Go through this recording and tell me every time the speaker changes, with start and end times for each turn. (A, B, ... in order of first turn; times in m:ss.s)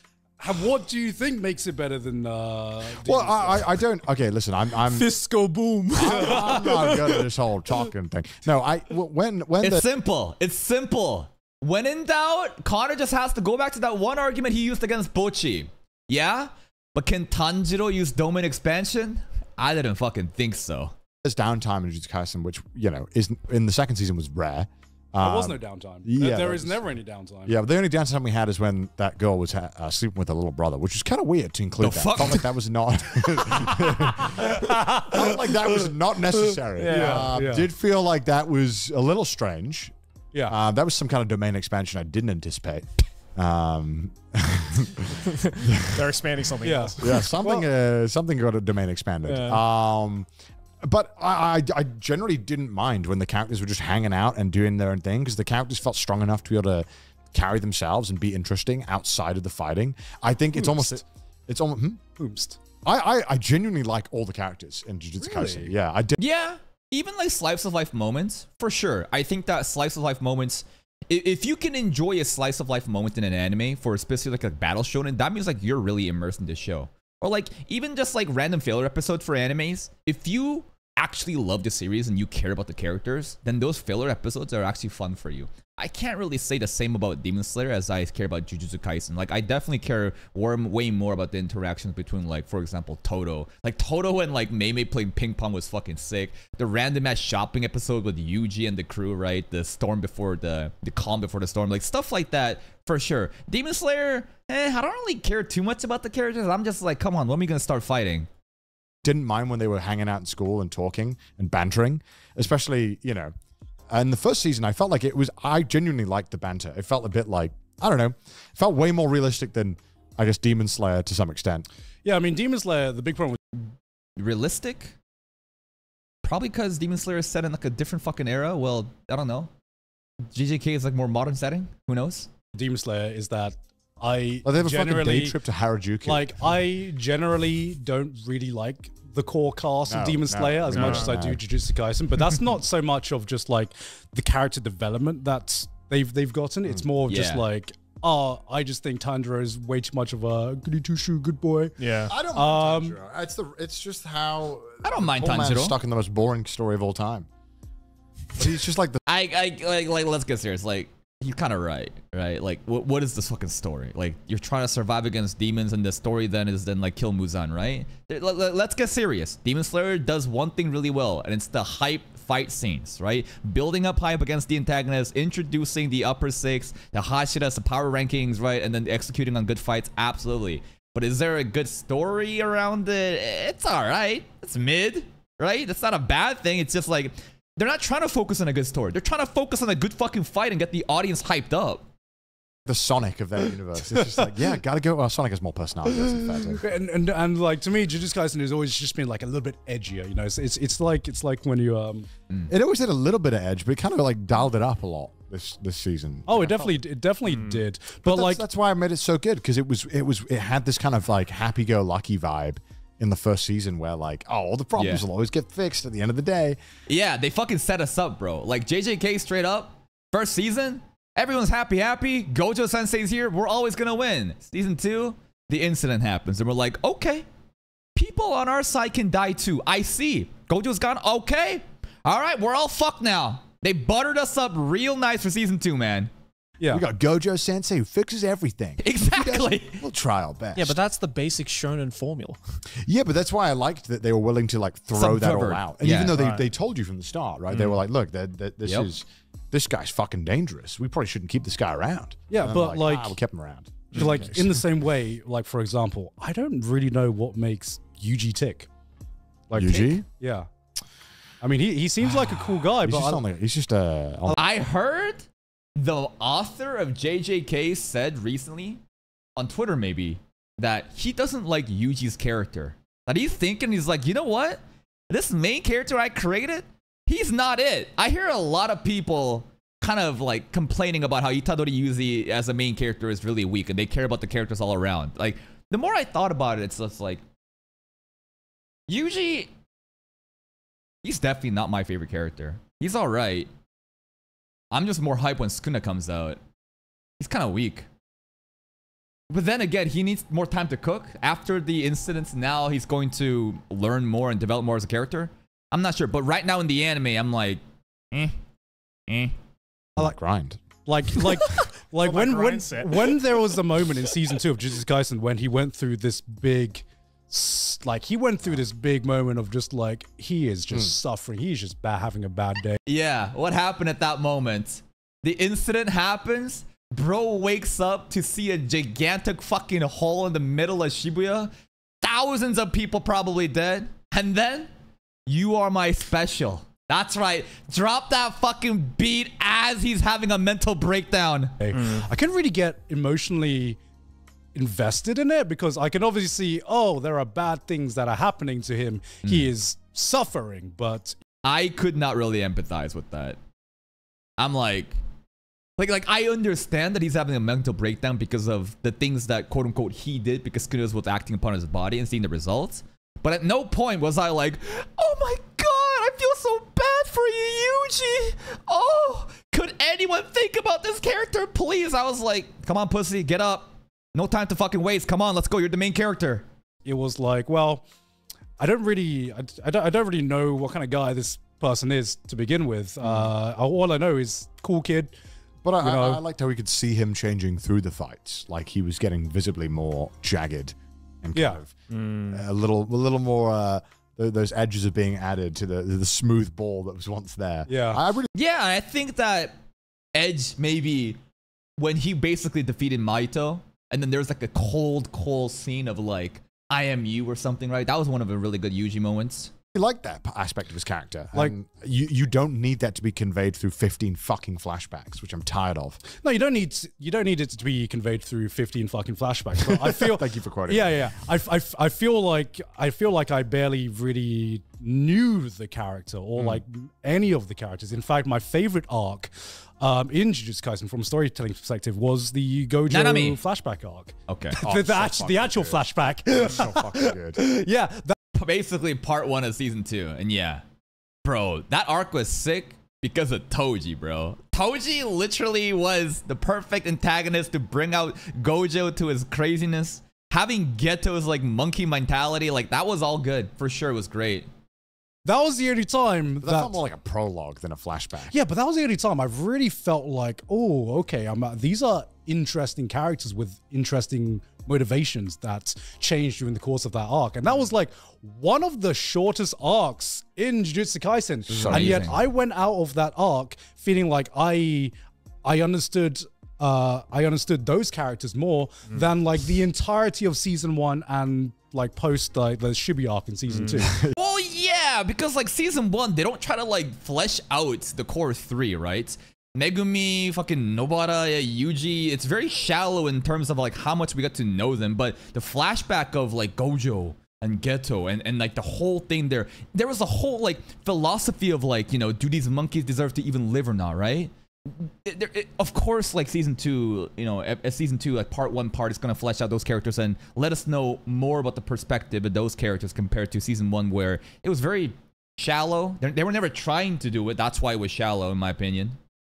0:00.4-0:03.7 A
0:03.0-0:05.1 B
0:04.9-0:07.2 C
0:05.9-0:07.0 A
0:06.0-0:09.8 B
0:09.6-0:20.9 D
0:21.2-0:26.8 B
0:25.2-0:27.6 A
0:27.4-0:39.9 B
0:31.8-0:32.5 D
0:34.3-0:35.6 A
0:36.8-0:37.7 A
0:36.8-0:37.4 C
0:40.4-0:46.1 B
0:45.3-0:47.0 C
0:46.6-0:47.7 A
0:47.0-0:50.3 B
0:50.8-1:02.0 B
1:00.5-1:01.0 A
1:02.2-1:02.6 A
1:02.8-1:06.2 B
1:05.2-1:05.7 A
1:06.2-1:48.3 D
1:49.0-1:53.3 B
1:53.9-2:01.7 B
2:02.0-2:03.4 A
2:03.6-2:05.0 D
2:06.2-2:09.5 D
2:10.3-2:12.3 D
2:12.5-2:15.4 A
2:14.4-2:16.3 B
2:16.0-2:33.0 A
2:19.9-2:21.4 B
2:20.7-2:21.2 C
2:27.1-2:27.4 D
2:31.8-2:32.1 C
2:32.1-2:37.3 B
2:34.8-2:35.8 D
2:38.4-2:39.0 B
2:39.0-3:11.8 D
3:12.6-3:16.6 B
3:16.3-3:22.1 A
3:22.5-3:26.8 B
3:26.3-3:28.4 A
3:27.3-3:27.6 C
3:28.0-3:36.6 B
3:34.8-3:35.0 D
3:36.9-3:47.2 D
3:48.0-3:56.1 D
3:56.6-3:56.8 A
3:56.7-4:00.8 B
3:58.8-3:59.8 D
4:00.5-4:02.4 C
4:02.8-4:14.6 B
4:05.0-4:06.2 D
4:06.1-4:06.4 C
4:12.3-4:13.2 A
4:13.9-4:18.7 A
4:19.5-4:20.0 B
4:19.5-4:20.5 A
4:21.4-4:23.2 A
4:22.0-4:24.3 B
4:24.3-4:28.8 D
4:29.4-4:47.2 D
4:48.9-4:49.5 D
4:51.0-4:53.5 D
4:54.7-4:56.4 D
4:57.2-4:57.9 D
4:59.3-5:08.4 D
5:09.1-5:09.3 D
5:10.0-5:10.6 B
5:10.8-5:22.8 A
5:12.0-5:13.2 C
5:22.8-5:31.5 D
5:32.0-5:34.7 D
5:35.3-5:41.5 D
5:41.6-5:43.8 A
5:41.7-5:42.1 C
5:44.5-5:51.2 A
5:51.4-5:53.4 D
5:54.4-5:55.0 D
5:55.8-6:16.4 D
6:16.8-6:17.8 A
6:18.6-6:25.1 A
6:25.6-6:31.7 B
6:25.8-6:26.2 A
6:31.3-6:31.6 A
6:31.9-6:32.3 C
6:32.3-6:38.3 B
6:37.7-6:38.0 A
6:38.3-6:39.6 D
6:40.1-6:41.2 D
6:41.8-6:49.5 D
6:49.7-6:56.0 B
6:56.2-7:18.2 A
6:59.6-7:01.1 B
7:12.9-7:13.4 D
7:14.3-7:14.6 D
7:14.6-7:17.4 B
7:18.3-7:20.6 D
7:21.2-7:34.5 D
7:35.2-7:36.8 A
7:36.4-7:38.3 B
7:38.3-7:54.9 A
7:51.5-7:52.2 D
7:51.6-7:52.1 B
7:55.4-8:04.0 A
8:03.5-8:03.8 C
8:03.8-8:04.1 B
8:04.2-8:39.0 D